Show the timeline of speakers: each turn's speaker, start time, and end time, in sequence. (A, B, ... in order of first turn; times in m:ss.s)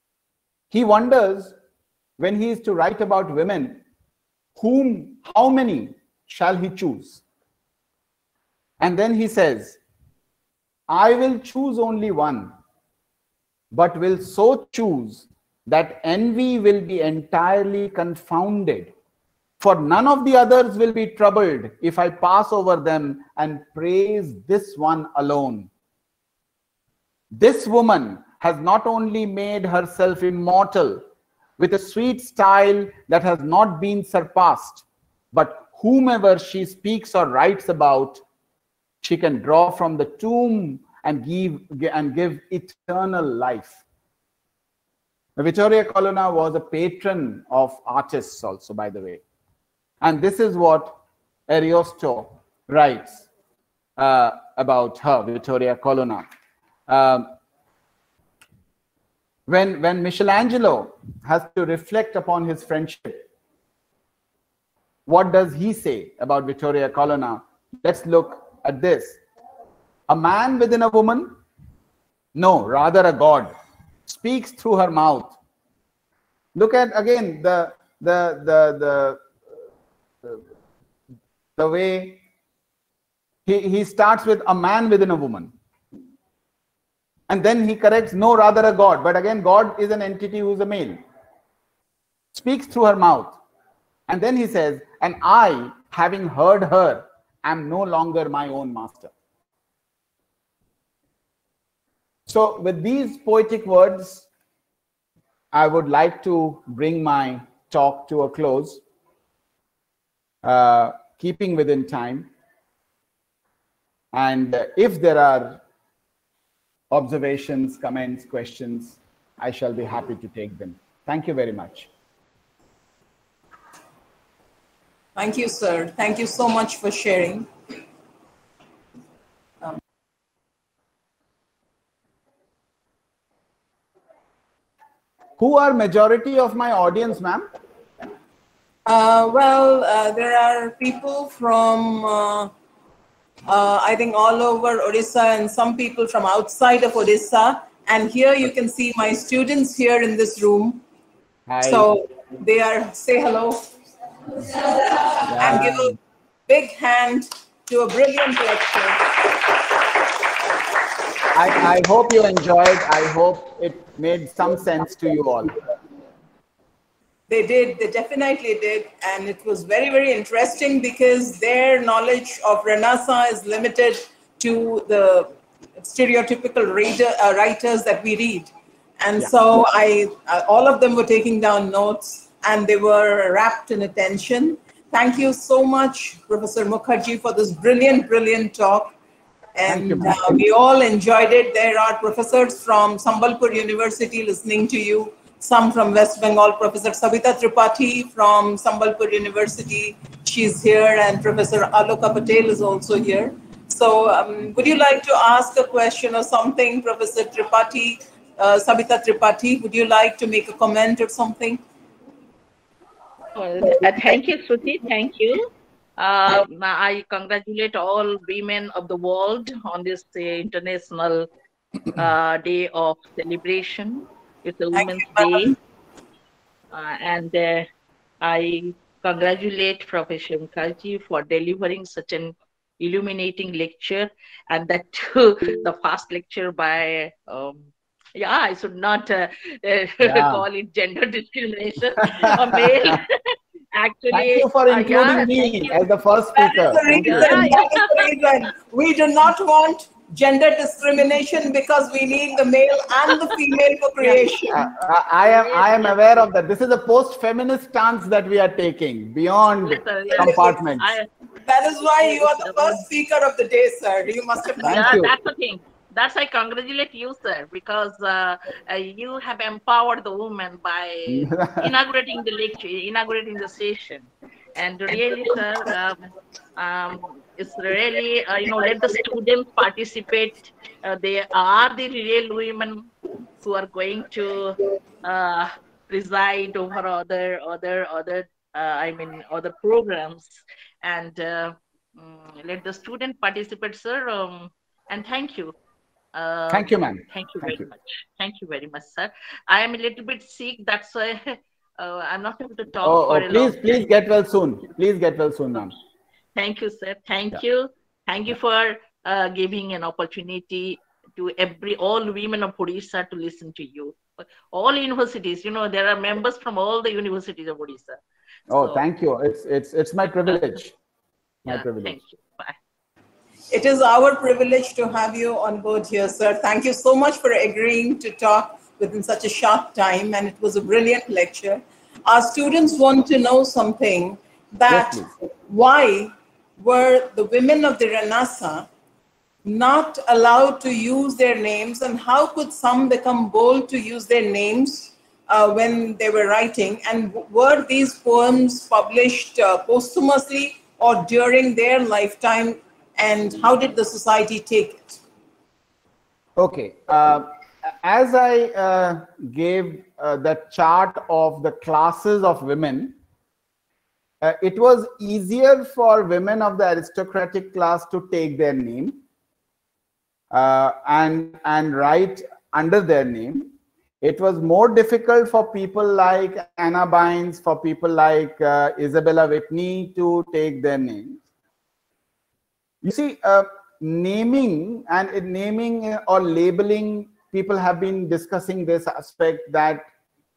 0:00.7-0:01.6 A
0:02.2-0:03.8 A
0:04.6-0:07.2 A
0:08.8-0:09.8 A
0:10.9-0:12.5 A
0:13.7-0:18.9 A
0:19.6-0:25.7 A
0:27.3-0:31.0 A
0:31.6-0:38.2 A
0:39.0-0:43.8 A
0:45.4-0:49.2 A
0:50.0-0:53.3 A
0:54.0-0:56.3 A
0:56.9-0:57.3 A
0:59.5-1:03.2 A
1:05.0-1:09.2 A
1:10.1-1:11.4 A
1:12.3-1:13.5 A
1:14.1-1:15.3 A
1:16.6-1:19.2 A
1:21.6-1:22.2 A
1:23.4-1:25.5 A
1:27.3-1:31.0 A
1:32.3-1:33.4 A
1:34.1-1:39.1 A
1:42.3-1:44.3 A
1:45.5-1:48.8 A
1:50.4-1:52.3 A
1:54.1-1:55.6 A
1:56.9-2:01.9 A
2:05.2-2:07.5 B
2:15.4-2:17.5 A
2:18.9-2:22.5 B
2:23.5-2:30.8 B
2:31.5-2:31.9 A
2:31.6-2:33.7 B
2:34.4-2:35.9 B
2:35.3-2:36.0 A
2:36.5-2:39.4 B
2:41.3-2:45.5 A
2:47.3-3:09.0 B
3:09.6-3:31.6 B
3:09.7-3:10.3 A
3:33.3-3:41.3 C
3:42.0-3:45.6 C
3:44.7-3:45.6 B
3:46.7-3:47.7 C
3:48.2-4:05.8 C
4:00.0-4:00.4 A
4:02.2-4:02.9 A
4:04.1-4:07.4 A
4:06.3-4:14.6 B
4:07.0-4:08.1 C
4:14.0-4:14.3 C
4:14.5-4:21.0 A
4:15.4-4:16.0 C
4:19.5-4:21.1 C
4:21.4-4:25.0 B
4:22.0-4:22.8 C
4:24.6-4:36.0 C
4:24.6-4:25.1 A
4:31.1-4:31.7 A
4:36.6-4:42.9 C
4:43.4-4:55.6 C
4:56.1-5:03.8 C
4:56.5-4:57.6 A
5:02.8-5:05.7 A
5:06.4-5:18.0 C
5:18.5-5:20.7 A
5:18.5-5:18.8 C
5:21.4-5:22.0 A
5:21.5-5:22.6 C
5:23.5-5:38.7 B
5:34.7-5:35.1 A
5:39.4-5:55.0 B
5:56.4-5:57.3 A
5:57.8-6:03.0 A
6:04.2-6:09.0 A
6:10.3-6:13.5 A
6:14.0-6:21.2 A
6:22.8-6:29.9 A